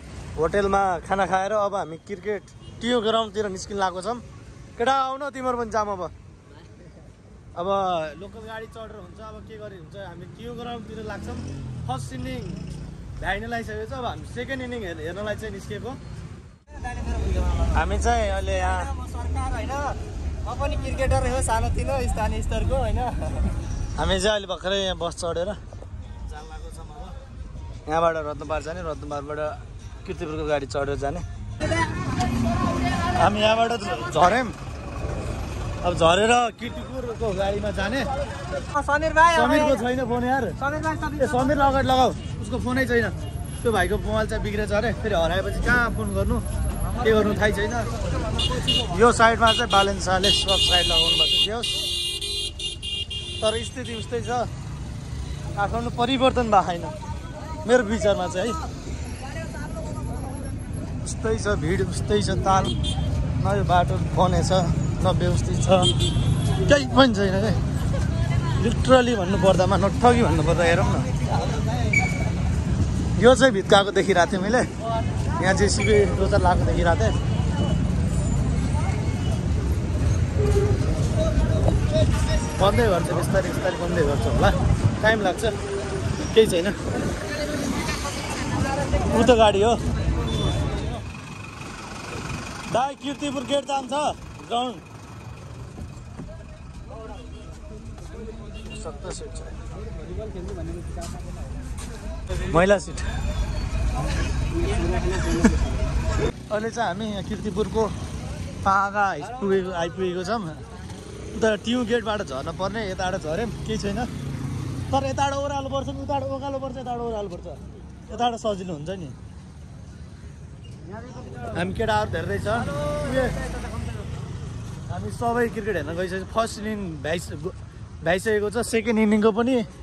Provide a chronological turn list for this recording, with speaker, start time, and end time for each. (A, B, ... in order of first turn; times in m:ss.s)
0:00.4-0:04.2 A
0:04.8-0:06.1 A
0:07.5-0:12.6 A
0:13.2-0:16.0 A
0:17.1-0:17.5 B
0:17.6-0:18.9 A
0:19.0-0:23.5 B
0:23.9-0:25.6 A
0:26.3-0:27.1 A
0:27.8-0:31.2 A
0:33.1-0:34.6 A
0:35.8-0:38.1 A
0:38.7-0:39.5 B
0:39.2-0:46.4 A
0:40.6-0:41.2 B
0:47.0-0:47.9 A
0:48.8-0:51.8 A
0:53.4-0:54.5 A
0:55.5-0:57.0 A
0:57.6-0:58.6 A
1:01.0-1:02.8 A
1:03.4-1:06.0 A
1:06.6-1:07.6 A
1:08.5-1:11.1 A
1:13.2-1:14.7 A
1:15.4-1:17.2 A
1:22.5-1:25.6 A
1:26.2-1:26.8 A
1:29.0-1:29.8 A
1:32.7-1:34.8 A
1:38.6-1:39.5 A
1:42.4-1:43.1 A
1:46.5-1:47.9 A
1:48.6-1:50.6 A
1:51.3-1:54.1 A
1:54.9-1:59.2 A
2:01.4-2:03.4 A
2:04.9-2:09.7 A